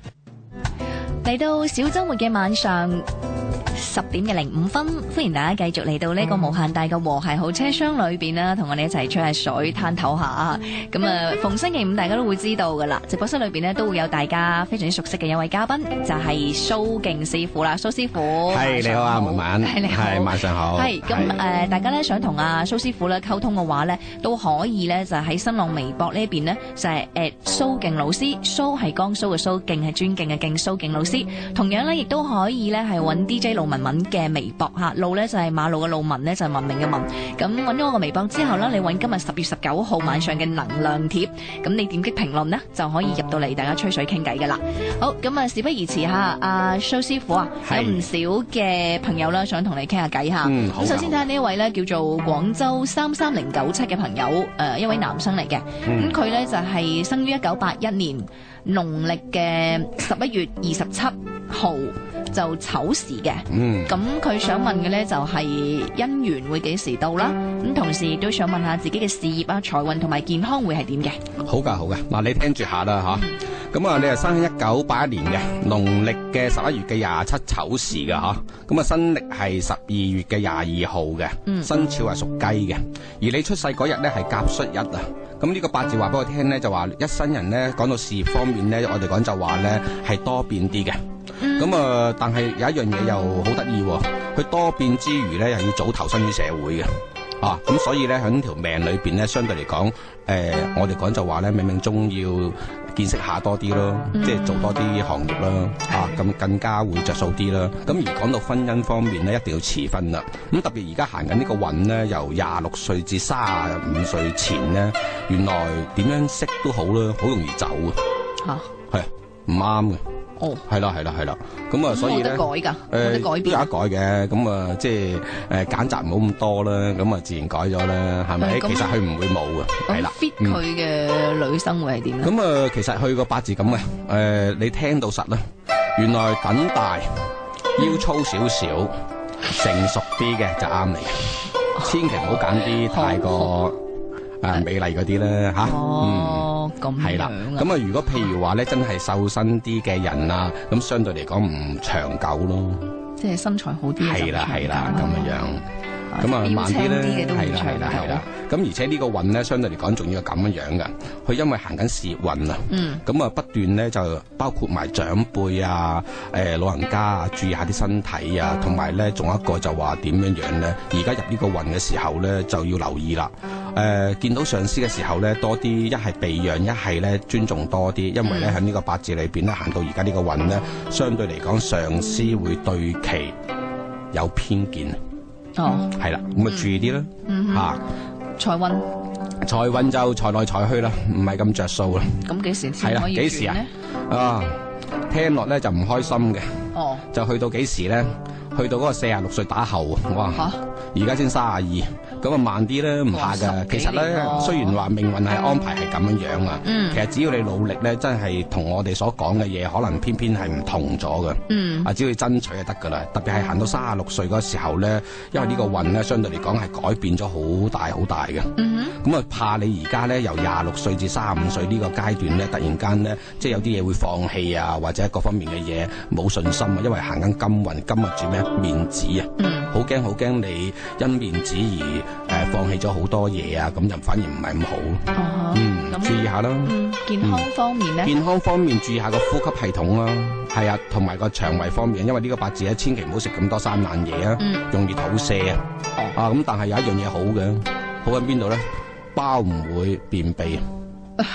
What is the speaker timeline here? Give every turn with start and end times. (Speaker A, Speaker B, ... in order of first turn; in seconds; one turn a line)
Speaker A: 1.2-3.1
Speaker A: 3.7-71.2
Speaker B: 18.4-21.4
Speaker B: 47.6-48.1
Speaker B: 50.4-51.2
Speaker B: 55.8-56.2
Speaker B: 63.5-64.0
Speaker B: 71.4-91.0
Speaker A: 81.5-81.7
Speaker A: 91.4-91.8
Speaker B: 91.5-96.9
Speaker B: 97.4-118.0
Speaker A: 104.1-104.7
Speaker A: 118.4-118.7
Speaker B: 118.9-120.0
Speaker A: 120.4-120.6
Speaker B: 120.7-130.6
Speaker A: 121.9-123.7
Speaker A: 128.4-129.0
Speaker A: 129.9-132.3
Speaker B: 132.2-135.4
Speaker B: 136.0-138.9
Speaker B: 139.5-143.8
Speaker A: 142.7-143.6
Speaker B: 144.4-152.9
Speaker A: 145.6-147.7
Speaker A: 153.2-155.4
Speaker B: 154.0-155.7
Speaker A: 156.1-158.2
Speaker B: 156.2-183.3
Speaker A: 162.7-163.0
Speaker A: 178.2-178.6
Speaker B: 184.1-185.0
Speaker A: 185.6-185.9
Speaker B: 185.9-187.8
Speaker A: 187.3-187.7
Speaker A: 188.4-188.9
Speaker B: 189.4-192.2
Speaker A: 192.2-193.7
Speaker B: 192.8-194.6
Speaker B: 195.1-237.5
Speaker A: 196.7-197.1
Speaker A: 200.3-200.6
Speaker A: 203.1-204.8
Speaker A: 206.6-207.0
Speaker A: 211.5-211.9
Speaker A: 218.6-219.0
Speaker A: 229.4-229.7
Speaker A: 235.1-238.2
Speaker B: 238.0-245.6
Speaker B: 246.1-250.6